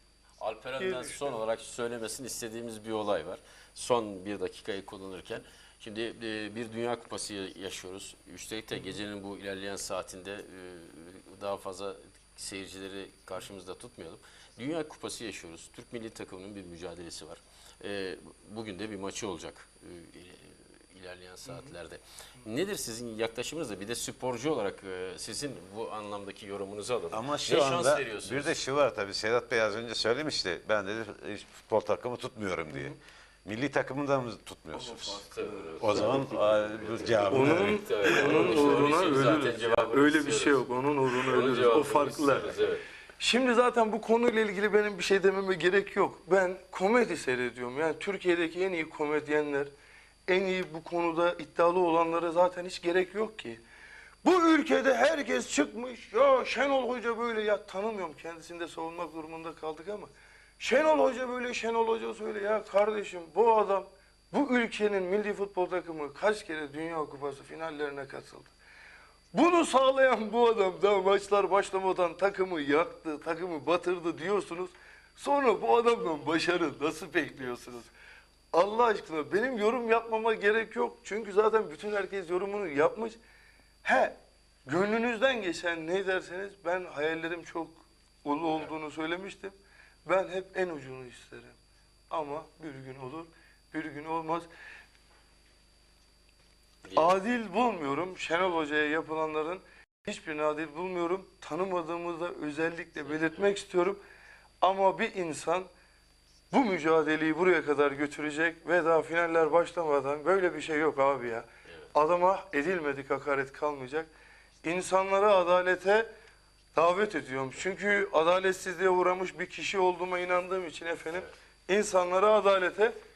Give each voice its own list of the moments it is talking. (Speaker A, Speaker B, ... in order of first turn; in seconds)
Speaker A: 0.4-28.6, 34.9-42.8, 96.8-97.2
Speaker B: 0.8-1.4, 21.5-21.7, 37.3-42.5, 43.2-49.7, 50.3-53.6, 54.2-68.5, 69.3-77.9, 78.5-83.2, 83.8-89.5, 90.0-91.6, 92.1-94.5, 96.9-104.0, 104.6-105.7, 106.5-114.1, 114.6-116.1, 116.7-122.9
Speaker C: 27.1-35.1, 35.8-38.5